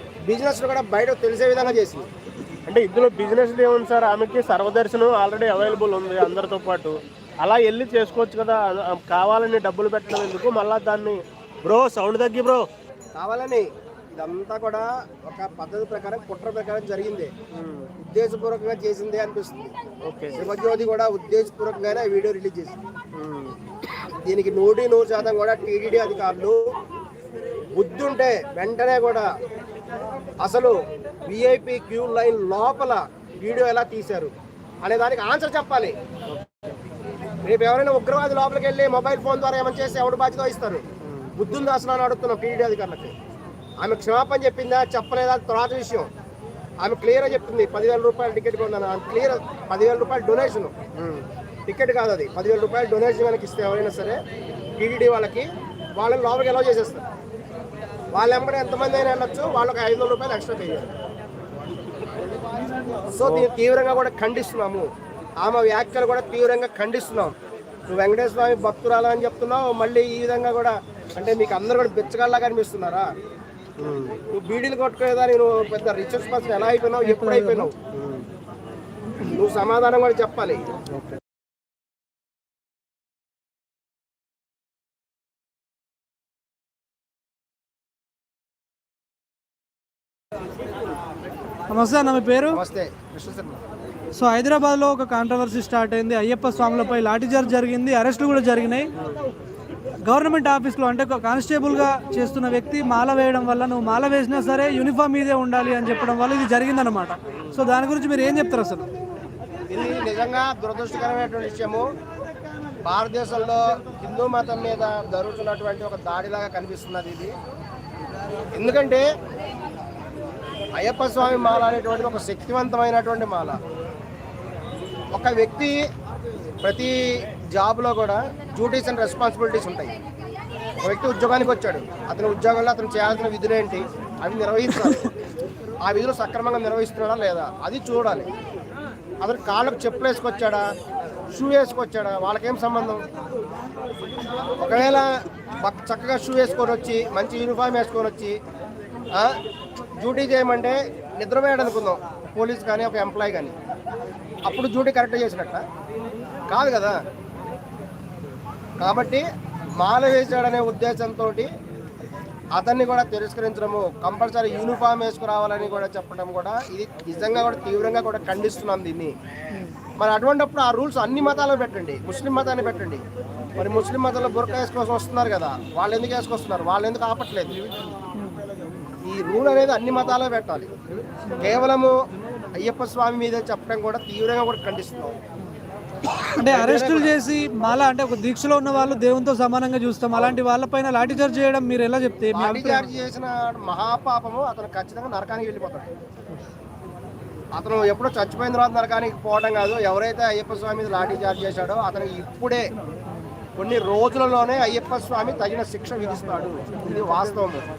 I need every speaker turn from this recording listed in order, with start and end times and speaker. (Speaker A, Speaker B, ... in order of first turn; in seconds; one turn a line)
Speaker A: 0.3-2.1
Speaker B: 2.7-12.7
Speaker A: 13.2-17.3
Speaker B: 17.5-17.9
Speaker A: 18.0-19.7
Speaker B: 20.0-20.4
Speaker A: 20.3-22.8
Speaker B: 23.1-23.6
Speaker A: 24.1-26.7
Speaker A: 27.8-29.3
Speaker A: 30.4-34.3
Speaker A: 34.9-36.0
Speaker A: 37.4-40.9
Speaker B: 41.0-41.3
Speaker A: 41.4-43.1
Speaker A: 43.8-46.1
Speaker A: 46.8-50.8
Speaker B: 51.0-51.2
Speaker A: 51.7-54.2
Speaker A: 54.8-57.1
Speaker A: 58.1-60.9
Speaker A: 62.9-64.9
Speaker B: 63.2-63.5
Speaker A: 65.4-67.3
Speaker A: 67.9-73.1
Speaker B: 73.8-74.2
Speaker A: 74.3-77.7
Speaker C: 77.0-77.7
Speaker B: 77.9-78.2
Speaker A: 79.3-80.6
Speaker C: 91.7-92.6
Speaker A: 92.5-93.6
Speaker C: 94.2-98.9
Speaker C: 100.1-108.9
Speaker A: 109.7-111.9
Speaker A: 112.8-117.3
Speaker A: 118.5-119.1
Speaker A: 120.8-123.6
Speaker A: 125.1-125.8
Speaker A: 126.6-130.0
Speaker A: 130.8-135.1
Speaker A: 135.8-138.3
Speaker A: 139.2-140.7
Speaker A: 141.3-143.0
Speaker A: 144.6-148.4
Speaker A: 150.0-153.6
Speaker A: 154.5-155.6
Speaker A: 156.5-157.0
Speaker A: 158.8-159.3
Speaker A: 159.8-161.5
Speaker A: 162.6-169.2
Speaker A: 170.0-173.0
Speaker A: 173.6-177.6
Speaker C: 178.2-178.4
Speaker A: 179.0-180.7
Speaker A: 181.4-182.0
Speaker A: 182.6-185.2
Speaker C: 186.4-192.9
Speaker A: 186.4-187.1
Speaker A: 192.3-195.9
Speaker A: 197.6-202.7
Speaker A: 203.6-207.7